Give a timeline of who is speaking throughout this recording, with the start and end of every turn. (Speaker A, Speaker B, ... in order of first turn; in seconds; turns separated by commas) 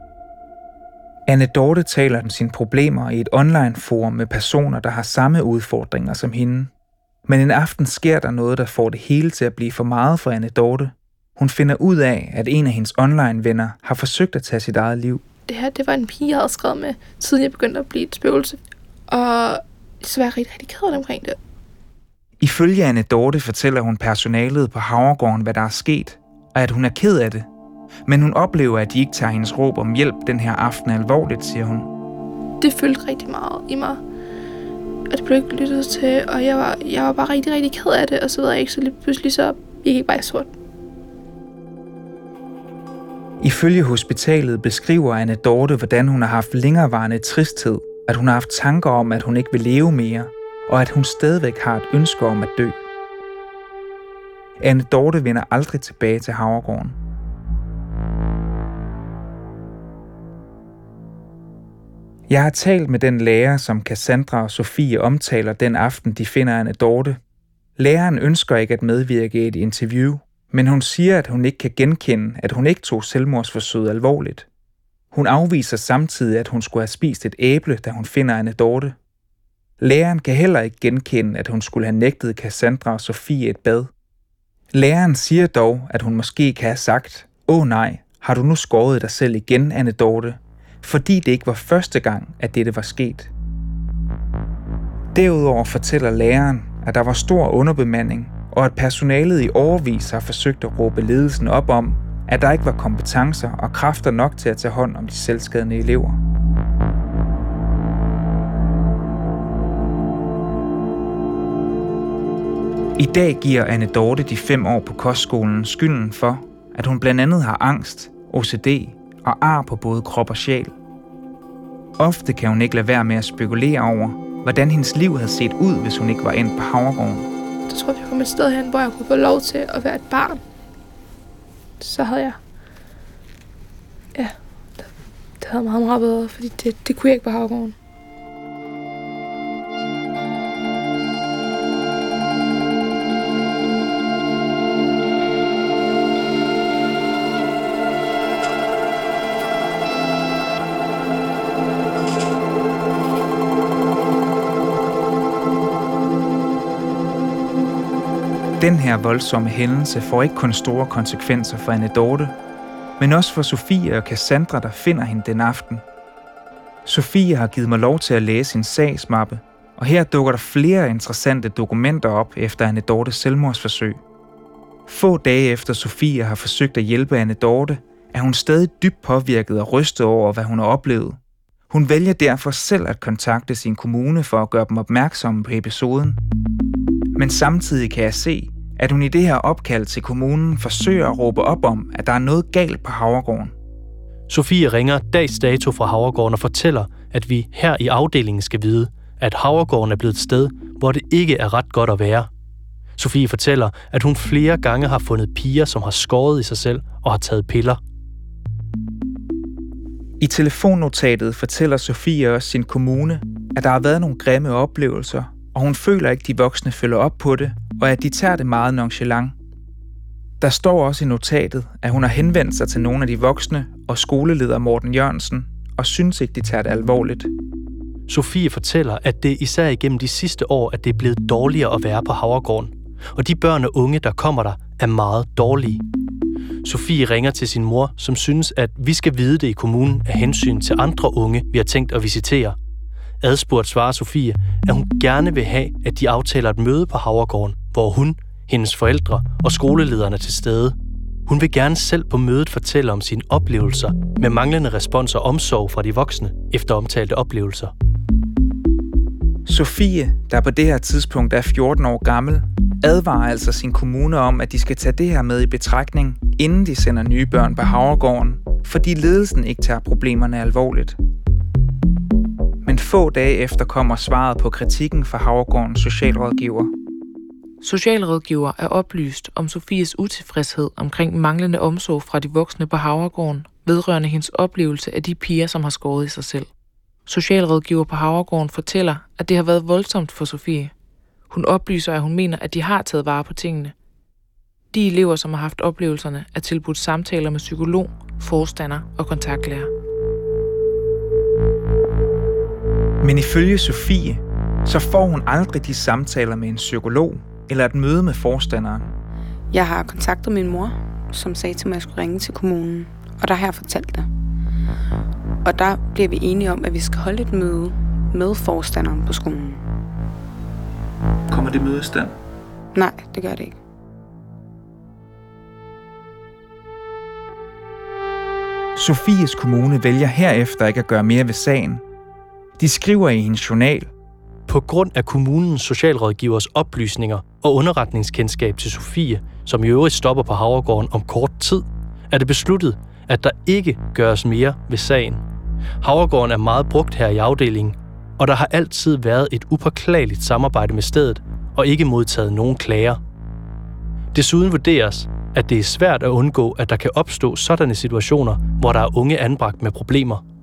Speaker A: 1.3-6.7, Speaker A: 7.3-15.2, Speaker B: 15.5-21.4, Speaker A: 22.4-27.5, Speaker A: 28.1-31.9, Speaker B: 32.6-34.0, Speaker B: 35.1-40.5, Speaker A: 43.4-52.8, Speaker A: 54.6-57.0, Speaker A: 62.3-67.2, Speaker A: 67.8-74.5, Speaker A: 75.1-79.0, Speaker A: 79.8-83.9, Speaker A: 84.7-93.3, Speaker A: 95.1-106.2, Speaker A: 113.0-120.8, Speaker A: 122.0-127.3, Speaker B: 127.7-130.4, Speaker B: 131.8-132.4, Speaker B: 134.2-134.9, Speaker B: 135.4-137.8, Speaker A: 158.6-162.3, Speaker A: 163.0-165.8, Speaker A: 166.8-174.0, Speaker A: 174.9-181.2, Speaker A: 181.7-186.2, Speaker A: 187.2-193.5, Speaker C: 194.3-202.3, Speaker C: 203.0-207.8, Speaker A: 210.2-219.3, Speaker A: 220.4-227.3, Speaker C: 228.1-235.8, Speaker C: 236.6-242.6, Speaker C: 243.2-257.7, Speaker A: 259.5-271.0, Speaker A: 272.6-276.7, Speaker D: 277.6-286.5, Speaker D: 287.1-290.7, Speaker D: 291.3-293.7, Speaker D: 294.7-299.7, Speaker A: 303.0-308.9, Speaker E: 309.5-314.1, Speaker E: 315.4-319.6, Speaker A: 321.8-322.0, Speaker E: 322.7-323.6, Speaker A: 328.8-331.8, Speaker A: 332.6-333.9, Speaker C: 334.5-345.2, Speaker C: 345.8-353.0, Speaker C: 354.1-360.2